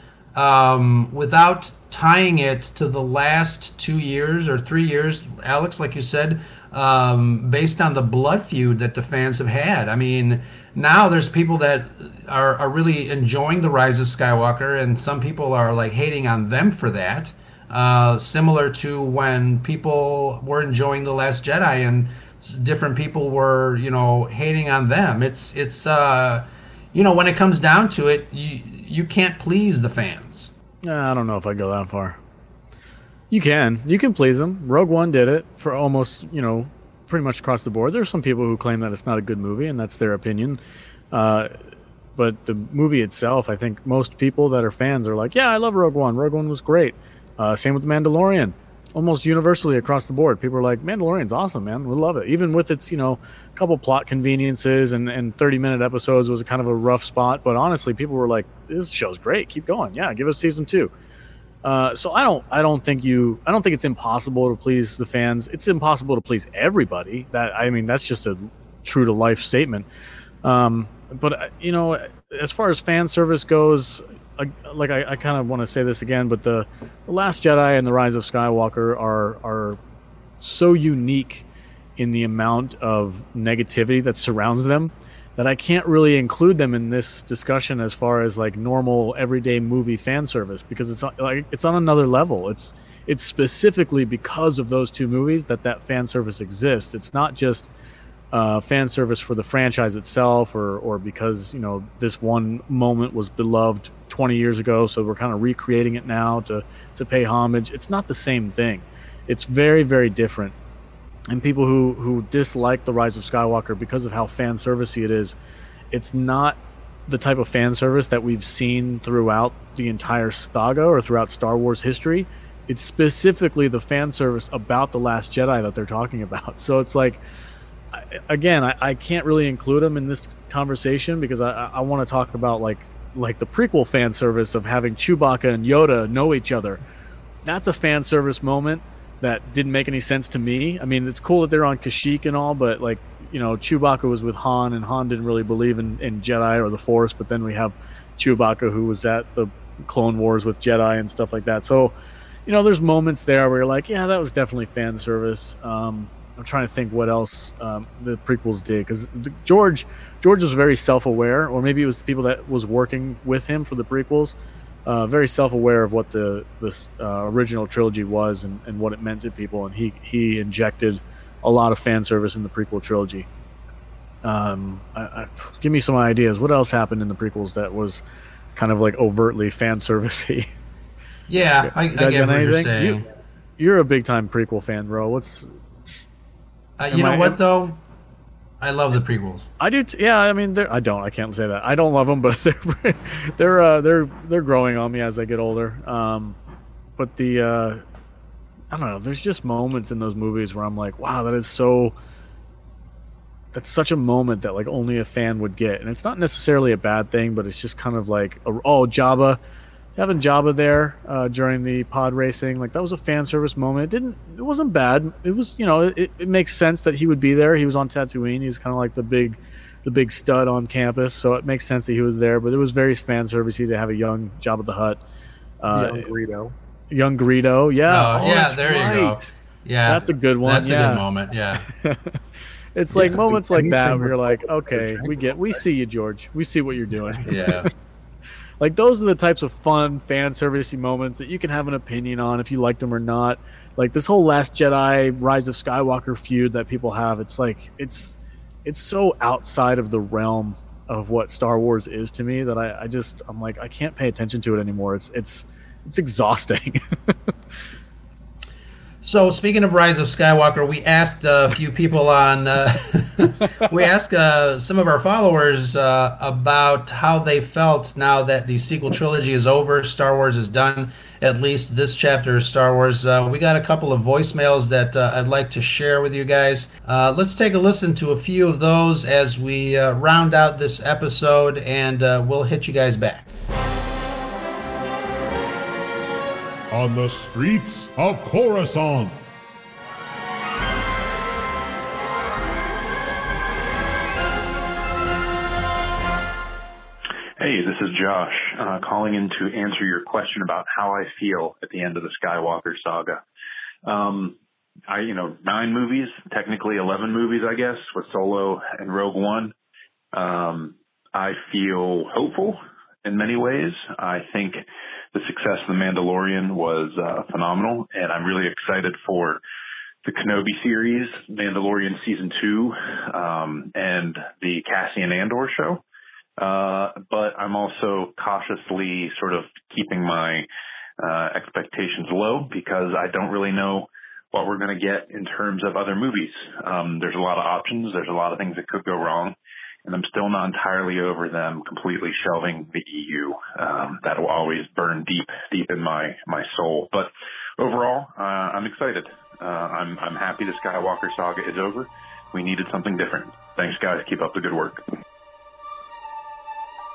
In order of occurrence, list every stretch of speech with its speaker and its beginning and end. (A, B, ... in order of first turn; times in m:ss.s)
0:00.4-0:30.5 A
0:30.8-0:32.2 B
0:33.3-0:40.6 B
0:41.1-0:41.5 B
0:42.2-1:00.9 B
1:01.6-1:09.9 B
1:10.4-1:19.8 B
1:20.4-1:21.5 B
1:22.0-1:37.7 B
1:38.3-1:50.6 B
1:51.3-1:55.4 B
1:55.9-2:07.2 B
2:07.9-2:16.8 B
2:17.4-2:31.9 B
2:32.5-2:53.3 B
2:54.2-2:58.0 B
2:58.6-3:00.5 B
3:01.3-3:03.0 A
3:01.6-3:03.0 B
3:03.6-3:05.5 B
3:06.8-3:07.8 A
3:06.9-3:07.4 B
3:08.6-3:09.5 A
3:09.6-3:16.4 B
3:17.0-3:17.8 B
3:18.7-3:22.0 B
3:23.5-3:29.4 B
3:30.0-3:45.0 B
3:45.6-3:46.1 B
3:45.7-3:46.5 C
3:46.9-3:49.3 B
3:47.9-3:51.7 A
3:49.8-3:51.0 B
3:51.7-3:52.2 B
3:52.8-3:57.5 B
3:52.9-3:55.6 C
3:57.2-3:57.7 A
3:58.6-4:17.1 B
4:19.0-4:43.3 A
4:46.7-4:49.3 D
4:57.4-5:03.2 E
5:03.8-5:04.4 E
5:04.9-5:09.5 E
5:10.1-5:14.6 E
5:15.1-5:19.4 E
5:20.0-5:25.8 E
5:26.4-5:30.5 E
5:31.0-5:54.8 E